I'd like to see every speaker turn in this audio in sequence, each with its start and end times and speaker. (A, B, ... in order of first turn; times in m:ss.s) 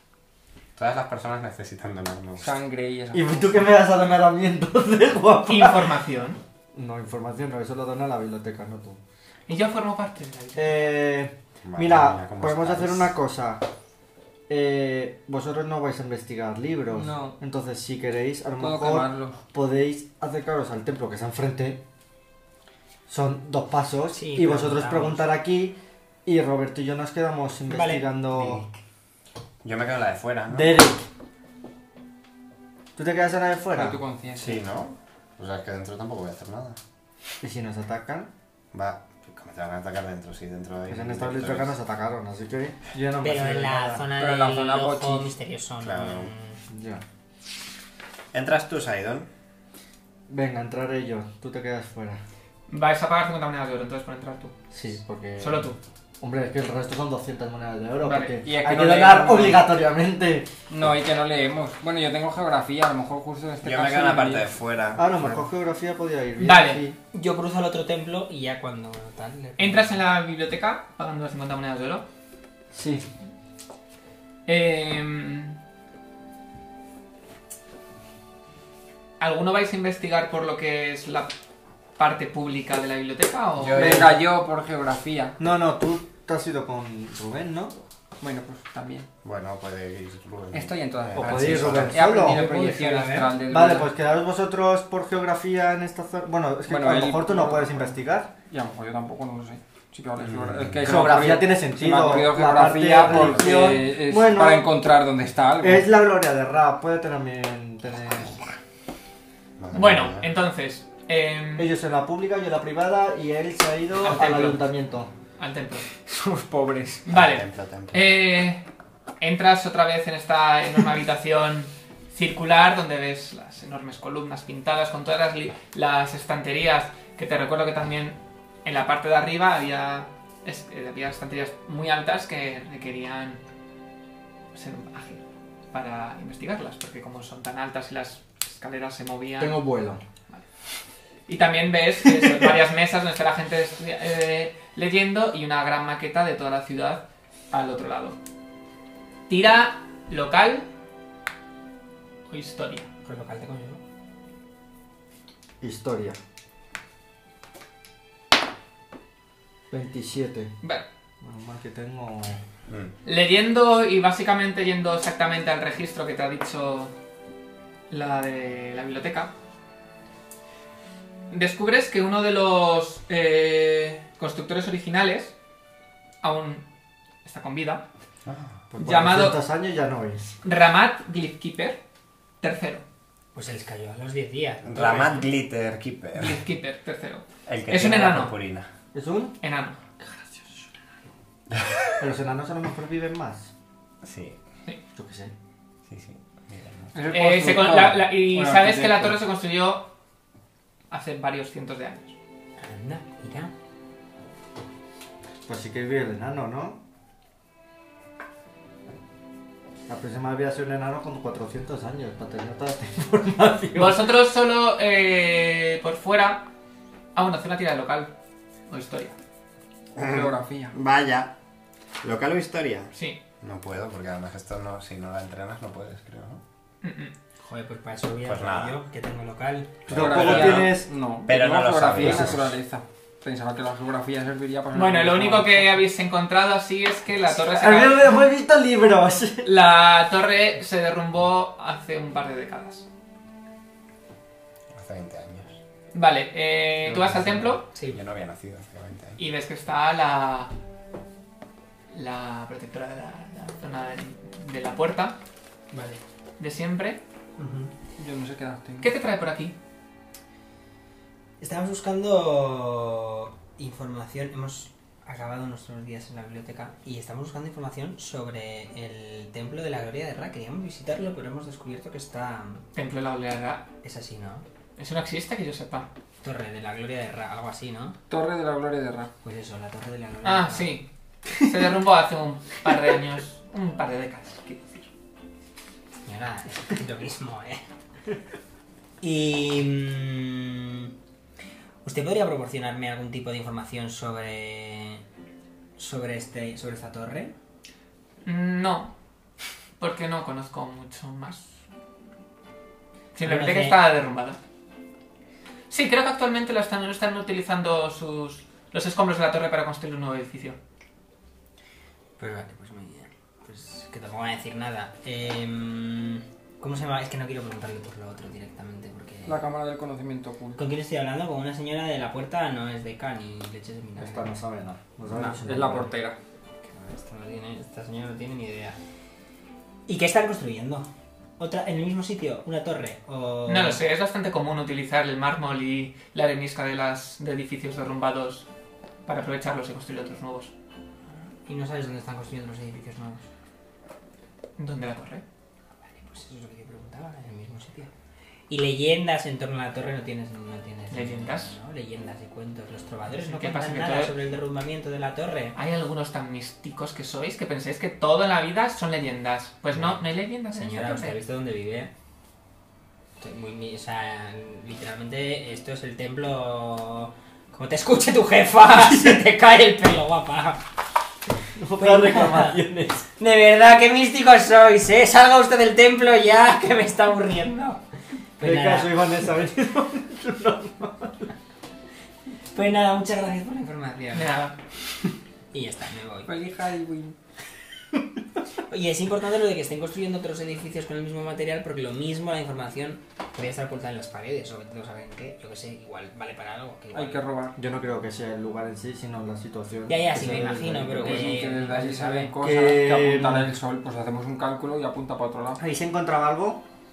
0:00.8-0:02.6 A
0:02.4-0:03.8 B
0:03.1-0:06.0 C
0:05.5-0:06.4 D
0:06.7-0:09.0 C
0:09.5-0:10.7 D
0:10.6-0:13.6 C
0:11.6-0:13.1 A
0:14.5-0:21.8 C
0:16.9-0:17.4 B
0:18.6-0:19.4 B
0:23.1-0:28.6 C
0:24.1-0:25.4 E
0:27.7-0:28.7 E
0:29.6-0:30.8 A
0:30.5-0:31.0 C
0:33.0-0:34.0 C
0:33.7-0:34.6 B
0:34.4-0:36.8 A
0:37.4-0:38.3 C
0:38.7-0:41.7 A
0:40.9-0:44.0 C
0:43.2-0:46.6 E
0:44.2-0:45.3 B
0:45.8-0:46.3 A
0:46.7-0:47.0 C
0:48.3-0:49.3 A
0:50.3-0:52.2 C
0:52.7-0:54.5 D
0:54.7-1:00.5 C
0:55.4-0:55.8 D
0:58.0-0:58.4 D
0:58.4-0:59.7 B
1:00.7-1:04.5 B
1:03.6-1:05.4 A
1:05.0-1:07.0 C
1:06.4-1:06.8 D
1:07.1-1:09.9 E
1:09.6-1:12.1 D
1:12.7-1:13.1 C
1:14.5-1:15.6 D
1:19.2-1:21.3 D
1:22.0-1:24.0 D
1:23.6-1:24.1 A
1:23.7-1:25.4 B
1:25.4-1:27.7 C
1:28.2-1:29.1 B
1:29.2-1:32.0 A
1:30.5-1:33.9 B
1:31.2-1:38.3 C
1:36.7-1:38.0 B
1:38.5-1:45.9 B
1:40.2-1:41.2 A
1:40.8-1:44.7 C
1:43.1-1:43.6 A
1:45.6-1:48.4 C
1:49.6-1:50.3 A
1:49.7-1:51.7 D
1:51.6-1:55.1 C
1:54.0-1:54.6 D
1:55.4-1:55.9 D
1:56.0-1:57.1 B
1:57.1-1:58.6 D
1:57.1-1:58.1 A
1:59.2-2:13.4 D
2:14.5-2:19.6 D
2:19.4-2:20.0 C
2:21.3-2:28.2 D
2:29.3-2:30.7 D
2:32.3-2:32.9 D
2:33.0-2:33.8 E
2:35.6-2:36.2 C
2:39.7-2:40.5 C
2:41.2-2:42.4 C
2:42.7-2:42.9 A
2:43.0-2:46.9 D
2:47.9-2:49.3 D
2:51.3-2:55.4 D
2:56.2-2:56.6 D
2:57.2-2:57.8 D
2:58.3-2:58.6 A
2:58.7-3:00.4 C
2:58.8-2:59.4 D
3:00.4-3:01.8 D
3:02.4-3:02.8 D
3:03.3-3:05.3 E
3:04.6-3:06.4 A
3:06.1-3:08.4 D
3:07.5-3:08.7 A
3:08.9-3:09.4 C
3:09.4-3:09.8 D
3:10.0-3:10.4 C
3:11.5-3:11.9 A
3:12.0-3:13.5 C
3:14.0-3:14.4 A
3:14.9-3:15.3 C
3:15.9-3:16.9 A
3:16.9-3:19.2 B
3:17.1-3:19.9 D
3:20.9-3:22.2 D
3:22.6-3:23.5 E
3:25.5-3:26.8 C
3:29.9-3:34.0 C
3:33.7-3:36.5 D
3:37.1-3:38.1 D
3:38.7-3:39.2 D
3:39.9-3:40.8 B
3:40.0-3:41.3 A
3:42.0-3:46.4 A
3:46.8-3:47.1 D
3:47.4-3:49.7 E
3:48.2-3:48.8 A
3:49.9-3:52.5 A
3:49.9-3:50.9 C
3:49.9-3:55.8 B
3:52.0-3:52.3 C
3:54.7-3:58.2 D
3:57.5-3:59.5 C
3:59.4-4:02.9 D
4:04.7-4:05.6 A
4:05.9-4:07.7 D
4:06.8-4:09.2 A
4:09.2-4:10.5 D
4:11.9-4:15.2 D
4:15.7-4:16.0 E
4:16.4-4:17.0 D
4:17.4-4:17.7 E
4:18.0-4:18.9 B
4:18.8-4:19.6 D
4:21.4-4:32.6 E
4:32.7-4:33.7 D
4:33.8-4:34.4 E
4:34.8-4:35.9 D
4:36.2-4:38.0 E
4:38.1-4:39.1 B
4:39.2-4:40.8 E
4:40.2-4:44.9 D
4:46.0-4:47.6 E
4:49.0-4:50.9 E
4:51.8-4:55.0 E
4:55.8-4:57.4 E
4:58.2-4:58.9 D
4:59.8-5:01.6 D
5:03.1-5:04.4 D
5:03.2-5:03.8 E
5:05.7-5:10.6 D
5:12.2-5:19.4 E
5:19.3-5:20.6 B
5:20.6-5:24.4 E
5:24.0-5:25.9 C
5:25.1-5:26.2 B
5:26.6-5:28.8 E
5:29.9-5:33.8 E
5:33.5-5:38.5 D
5:39.1-5:40.5 D
5:41.5-5:43.3 E
5:44.6-5:45.2 D
5:45.9-5:47.9 E
5:48.5-5:55.6 E
5:50.9-5:51.6 D
5:53.2-5:54.2 D
5:55.6-6:01.2 D
6:00.5-6:01.9 E
6:03.2-6:10.6 E
6:11.6-6:13.1 C
6:11.8-6:12.6 E
6:13.2-6:17.8 E
6:18.4-6:19.1 E
6:18.4-6:21.3 C
6:22.5-6:24.3 E
6:24.1-6:24.6 D
6:25.5-6:26.3 E
6:26.3-6:27.2 B
6:28.7-6:37.2 E
6:36.9-6:37.6 B
6:37.6-6:41.4 C
6:39.9-6:42.3 E
6:40.9-6:45.6 B
6:42.4-6:43.5 C
6:45.6-6:46.6 C